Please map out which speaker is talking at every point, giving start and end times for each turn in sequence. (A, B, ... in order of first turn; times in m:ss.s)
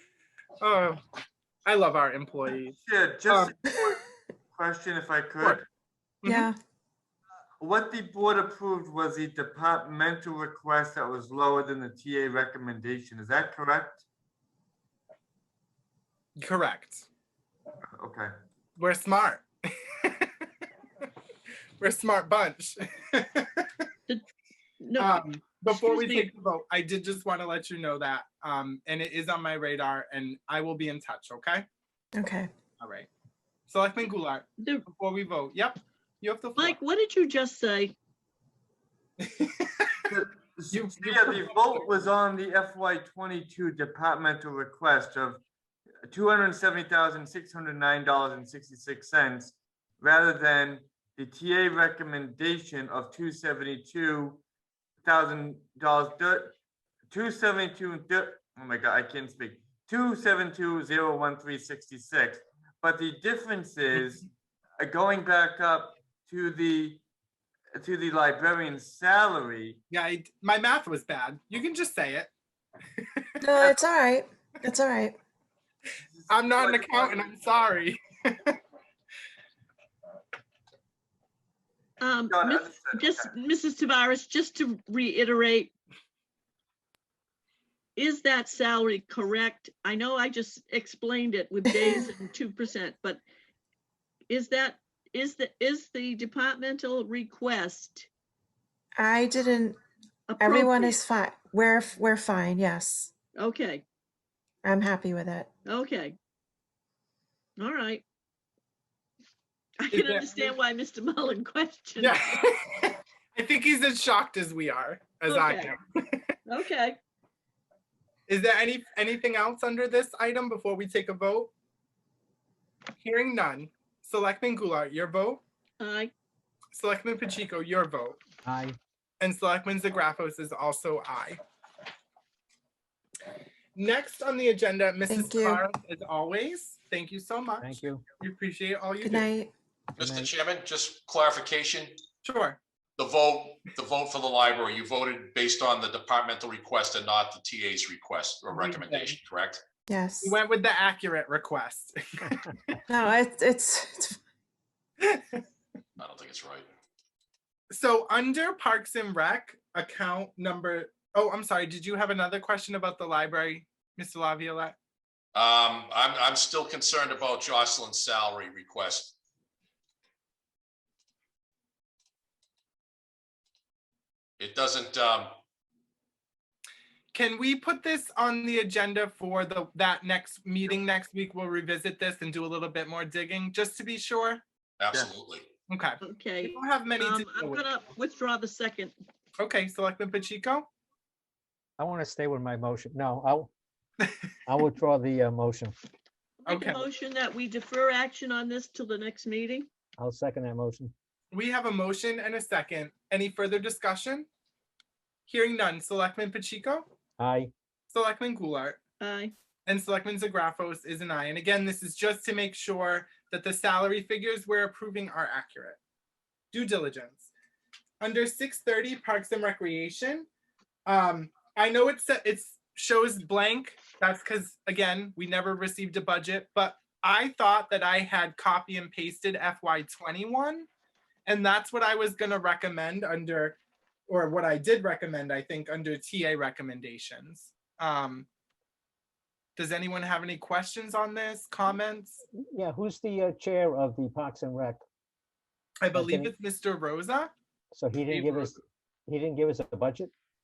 0:00.6-0:01.0 A
0:01.6-0:02.8 A
0:02.8-0:03.9 B
0:04.5-0:05.6 B
0:06.2-0:06.5 A
0:06.2-0:06.5 C
0:07.6-0:14.0 B
0:16.4-0:17.1 A
0:17.9-0:18.3 B
0:18.8-0:20.3 A
0:21.8-0:23.7 A
0:24.8-0:25.1 D
0:25.0-0:31.6 A
0:25.7-0:26.3 D
0:32.1-0:32.5 C
0:32.8-0:33.1 A
0:33.7-0:36.8 A
0:34.6-0:34.8 D
0:36.6-0:37.9 D
0:39.2-0:40.0 A
0:40.1-0:45.4 B
0:40.7-0:41.8 A
0:46.1-0:54.4 B
0:55.0-0:56.5 B
0:57.1-1:04.3 B
1:04.8-1:07.0 B
1:07.7-1:09.8 B
1:09.9-1:12.3 A
1:13.4-1:15.2 C
1:16.2-1:17.3 B
1:16.3-1:18.6 A
1:22.0-1:25.7 D
1:22.3-1:23.3 B
1:28.0-1:33.2 D
1:34.3-1:38.1 D
1:39.0-1:39.8 C
1:40.3-1:41.0 D
1:40.4-1:43.1 C
1:43.4-1:43.8 D
1:44.6-1:45.5 C
1:45.6-1:46.2 D
1:47.6-1:48.0 D
1:49.8-1:52.2 D
1:49.9-1:50.5 A
1:52.0-1:56.2 A
1:55.3-1:55.7 D
1:56.4-1:57.0 D
1:58.3-2:01.5 A
2:03.0-2:05.4 A
2:05.8-2:06.1 D
2:06.7-2:08.2 A
2:08.4-2:08.8 E
2:09.2-2:11.4 A
2:13.8-2:19.3 A
2:15.1-2:15.6 C
2:17.6-2:18.0 E
2:19.0-2:19.5 C
2:20.0-2:22.0 F
2:20.0-2:20.3 E
2:22.2-2:22.6 A
2:23.0-2:29.6 F
2:28.5-2:29.2 A
2:29.9-2:30.4 C
2:30.2-2:32.7 A
2:32.9-2:34.2 C
2:35.0-2:35.4 A
2:36.0-2:36.7 F
2:37.7-2:44.7 A
2:45.3-2:49.1 F
2:54.4-2:55.3 F
2:57.1-3:04.4 A
3:04.8-3:05.4 F
3:05.7-3:07.6 A
3:06.0-3:08.9 D
3:09.4-3:10.7 A
3:11.8-3:13.5 E
3:14.5-3:15.7 E
3:16.4-3:19.7 D
3:16.5-3:16.8 A
3:20.0-3:20.9 E
3:21.3-3:24.3 A
3:25.3-3:26.8 A
3:27.2-3:27.5 E
3:27.9-3:28.8 A
3:29.0-3:29.3 D
3:29.6-3:35.8 A
3:36.5-3:37.3 A
3:38.0-3:40.3 A
3:40.8-3:50.7 A
3:51.2-3:58.3 A
3:59.6-4:02.2 A
4:02.3-4:04.8 E
4:05.8-4:07.3 A
4:05.9-4:06.3 E
4:07.7-4:10.1 E